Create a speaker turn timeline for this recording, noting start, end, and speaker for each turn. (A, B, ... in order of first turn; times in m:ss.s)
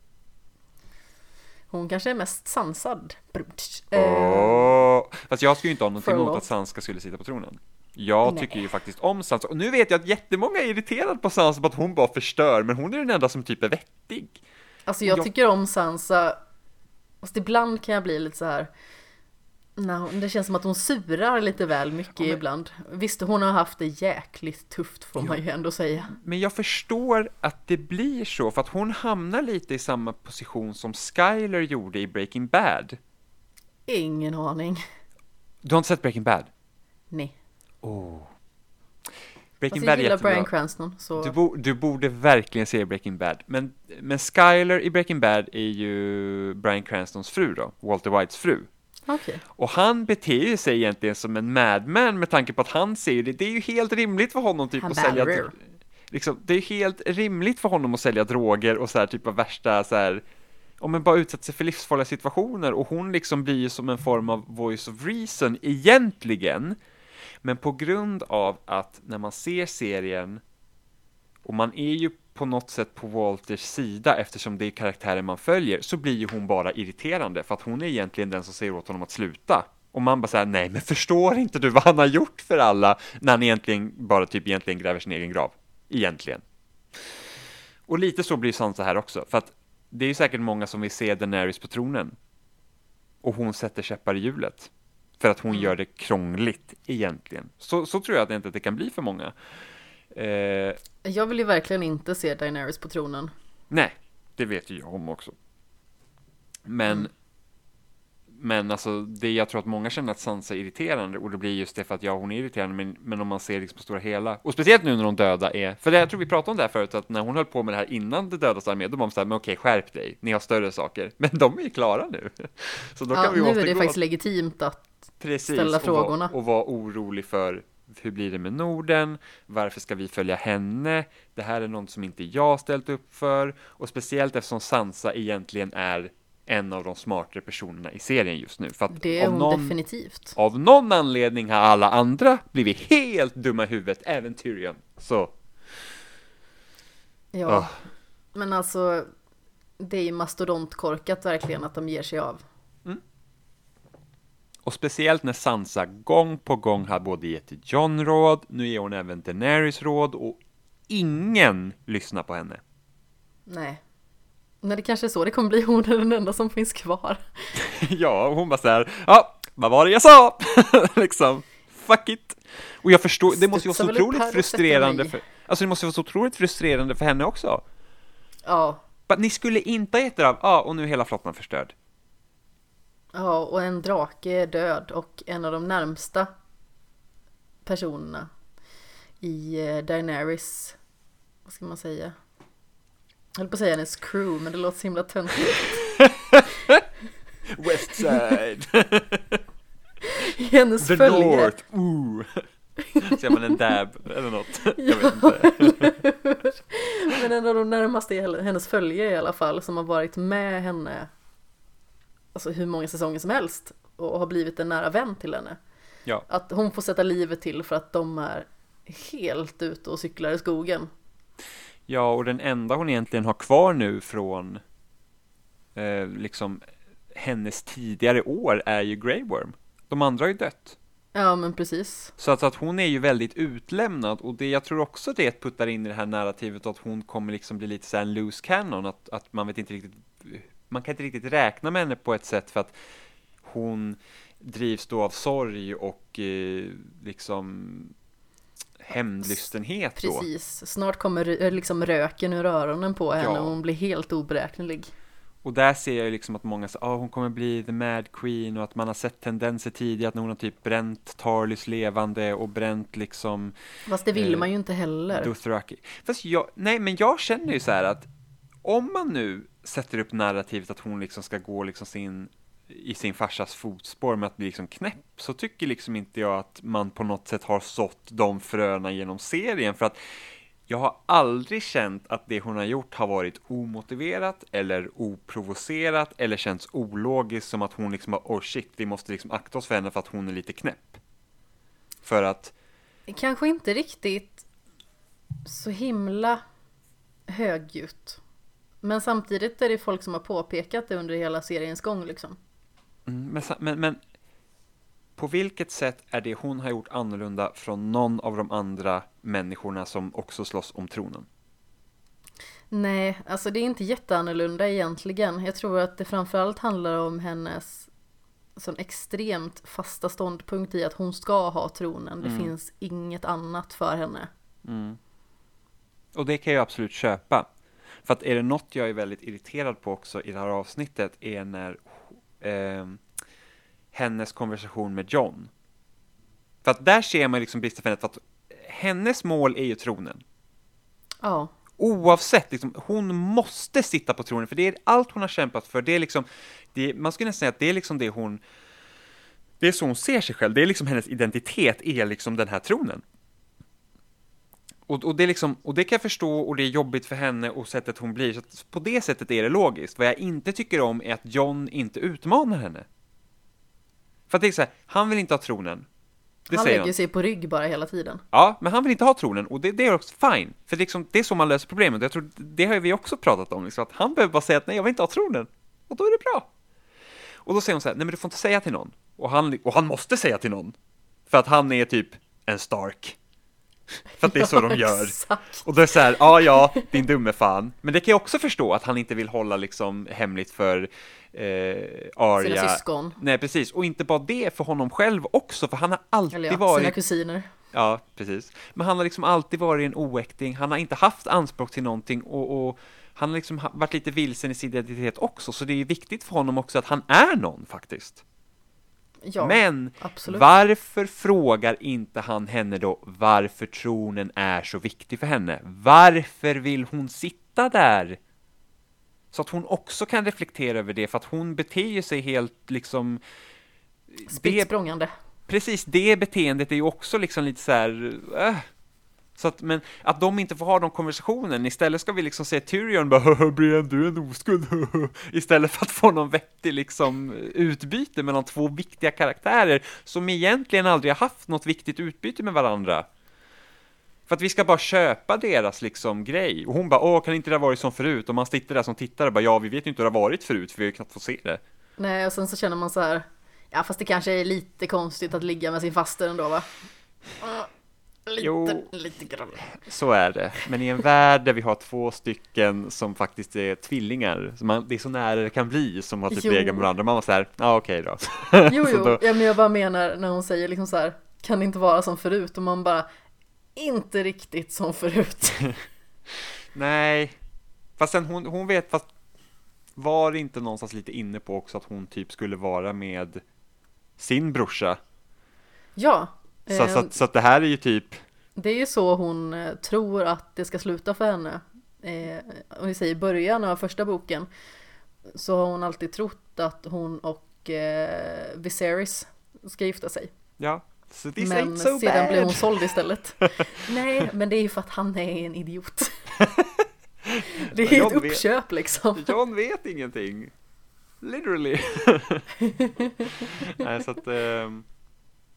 0:01.7-0:04.8 A
0:03.9-0:14.4 B
0:06.0-0:06.4 A
0:08.2-0:08.6 A
0:14.9-0:16.4 A
0:17.2-0:18.7 A
0:19.8-0:26.1 A
0:26.1-0:33.0 B
0:33.9-0:34.8 A
0:35.6-0:36.5 B
0:37.8-0:38.3 B
0:39.6-0:40.5 B
0:39.7-0:41.3 A
0:41.2-0:48.7 B
0:49.1-0:49.4 A
0:49.6-1:00.2 B
0:54.8-0:55.5 A
1:00.8-1:06.8 B
1:07.4-1:10.4 B
1:11.4-1:26.4 B
1:27.9-1:32.2 B
1:33.2-1:39.3 B
1:40.1-1:40.8 B
1:41.0-1:43.3 A
1:43.7-1:45.3 B
1:46.7-1:47.1 B
1:48.3-2:04.0 B
2:03.1-2:04.9 A
2:05.2-2:19.8 B
2:05.5-2:06.3 A
2:18.9-2:20.4 A
2:20.3-2:25.3 B
2:27.3-2:27.7 A
2:27.4-2:27.8 B
2:28.3-2:29.1 A
2:29.8-2:32.4 A
2:34.6-2:42.6 B
2:43.5-2:43.8 A
2:44.6-2:47.5 A
2:47.5-2:57.6 B
2:53.3-2:55.2 A
2:58.4-2:58.8 A
2:59.1-3:01.7 B
3:03.1-3:06.3 A
3:07.6-3:08.3 A
3:09.2-3:10.8 A
3:11.4-3:12.1 A
3:13.4-3:15.8 A
3:15.9-3:16.8 B
3:17.5-3:19.4 B
3:17.8-3:18.2 A
3:20.0-3:21.5 A
3:20.8-3:22.4 B
3:22.8-3:23.5 A
3:23.0-3:26.0 B
3:24.8-3:31.1 A
3:32.3-3:35.6 A
3:36.3-3:40.9 A
3:41.9-3:44.6 B
3:45.7-3:50.8 B
3:51.1-3:52.1 A
3:52.2-4:02.7 B
4:03.4-4:07.9 B
4:08.8-4:10.3 B
4:10.0-4:14.9 A
4:13.2-4:13.6 B
4:15.4-4:23.5 B
4:23.9-4:25.3 A
4:24.1-4:24.5 B
4:25.1-4:28.1 B
4:28.6-4:40.0 B
4:40.7-4:51.0 B
4:52.0-4:52.5 B
4:53.1-4:54.4 A
4:55.4-4:56.4 A
4:57.3-4:58.2 A
4:58.8-5:02.4 A
5:03.1-5:04.0 B
5:05.2-5:11.3 B
5:12.7-5:17.9 A
5:18.6-5:24.3 A
5:22.2-5:22.5 B
5:24.6-5:25.0 B
5:26.1-5:27.5 B
5:28.0-5:33.0 B
5:33.9-5:35.5 B
5:36.6-5:40.2 B
5:41.2-5:41.5 A
5:41.8-5:48.4 B
5:49.6-5:53.0 B
5:54.9-6:02.8 B
6:04.3-6:05.8 B
6:06.5-6:06.9 B
6:06.5-6:08.2 A
6:08.3-6:16.5 B
6:17.4-6:20.8 B
6:21.3-6:23.2 B
6:24.2-6:36.9 B
6:24.2-6:25.6 A
6:26.4-6:26.9 A
6:32.4-6:33.2 A
6:36.3-6:37.5 A
6:37.7-6:48.2 B
6:49.2-6:50.5 A
6:49.4-6:58.2 B
6:59.3-7:03.2 B
7:04.1-7:04.7 B
7:04.3-7:05.1 A
7:05.5-7:08.7 B
7:09.4-7:23.1 B
7:24.3-7:31.6 B
7:32.0-7:36.7 A
7:37.4-7:37.7 A
7:38.3-7:39.7 A
7:38.4-7:38.9 B
7:39.7-7:49.2 B
7:46.3-7:46.9 A
7:48.6-7:53.0 A
7:53.8-7:55.7 A
7:56.3-7:57.4 B
7:58.0-7:59.1 B
8:00.0-8:03.4 B
8:04.2-8:05.0 B
8:06.0-8:07.1 A
8:06.7-8:08.2 B
8:08.6-8:14.5 A
8:15.3-8:20.3 A
8:20.6-8:23.0 B
8:21.4-8:26.4 A
8:26.4-8:28.4 B
8:27.5-8:29.3 A
8:29.2-8:30.5 B
8:31.2-8:32.5 B
8:32.6-8:33.7 A
8:33.2-8:34.8 B